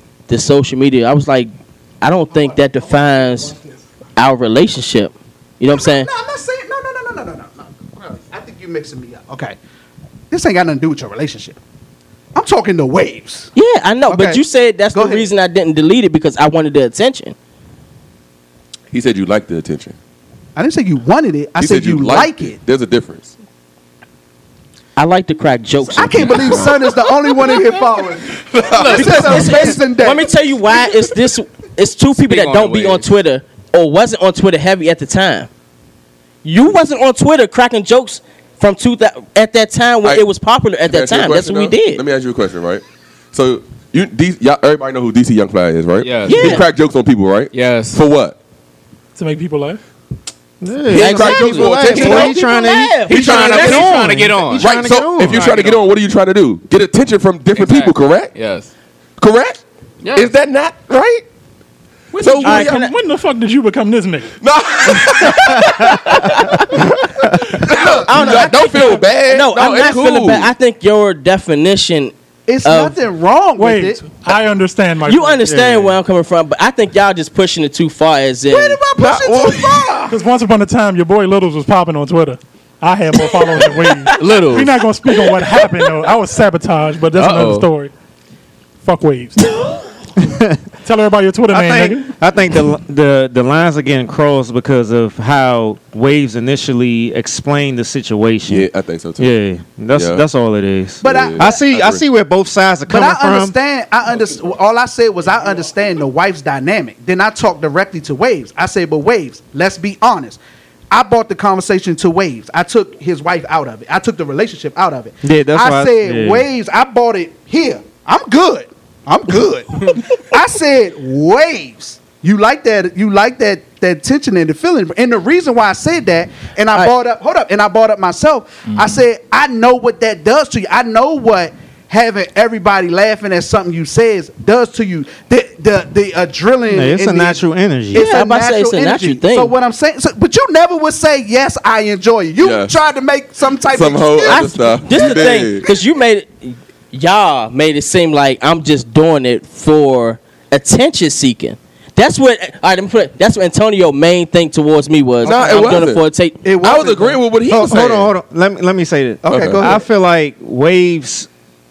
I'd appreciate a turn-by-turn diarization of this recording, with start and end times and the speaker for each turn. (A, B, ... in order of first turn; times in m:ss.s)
0:00.3-0:01.5 A
0:02.0-0:03.5 A
0:02.3-0:03.8 B
0:04.2-0:06.1 A
0:05.7-0:09.6 B
0:10.3-0:11.6 B
0:12.4-0:13.5 B
0:13.6-0:17.4 A
0:14.1-0:14.4 B
0:14.9-0:15.3 B
0:18.9-0:20.0 C
0:20.6-0:22.6 B
0:21.6-0:23.3 C
0:25.0-0:26.7 A
0:25.8-0:30.3 B
0:26.4-0:26.7 C
0:28.5-0:29.7 C
0:28.6-0:29.8 D
0:29.2-0:35.5 A
0:32.2-0:33.1 D
0:36.4-0:42.0 A
0:40.8-0:48.4 C
0:46.0-0:46.6 D
0:46.3-0:46.6 A
0:47.5-0:48.0 D
0:49.2-0:49.8 E
0:50.6-0:55.5 F
0:50.9-0:52.6 C
0:50.9-0:53.9 A
0:53.1-0:55.9 D
0:53.1-0:53.9 C
0:54.6-0:58.3 C
0:57.5-0:58.7 D
0:59.2-0:59.6 C
1:00.0-1:00.3 D
1:00.1-1:01.2 C
1:02.2-1:02.4 D
1:02.2-1:02.9 C
1:02.4-1:04.3 E
1:02.4-1:02.9 A
1:04.4-1:10.5 C
1:08.0-1:12.1 A
1:12.5-1:14.0 B
1:12.6-1:13.0 A
1:13.6-1:15.5 E
1:15.0-1:18.8 A
1:15.4-1:16.0 F
1:18.5-1:20.2 B
1:19.0-1:19.7 C
1:20.1-1:27.9 E
1:24.2-1:24.7 D
1:27.2-1:27.7 D
1:28.8-1:29.6 E
1:30.3-1:30.6 F
1:30.8-1:32.1 E
1:31.5-1:43.6 F
1:38.5-1:39.3 C
1:39.9-1:40.2 C
1:41.0-1:41.6 B
1:41.0-1:42.0 C
1:42.9-1:50.4 B
1:50.9-2:17.4 B
1:55.2-1:56.5 F
2:16.7-2:18.1 F
2:17.9-2:25.1 B
2:17.9-2:19.5 A
2:22.4-2:22.7 C
2:23.7-2:25.6 C
2:24.3-2:36.4 A
2:35.2-2:36.0 C
2:35.4-2:35.8 B
2:36.4-2:37.9 B
2:36.6-2:38.1 C
2:37.5-2:41.3 F
2:39.2-2:39.8 B
2:39.3-2:39.8 C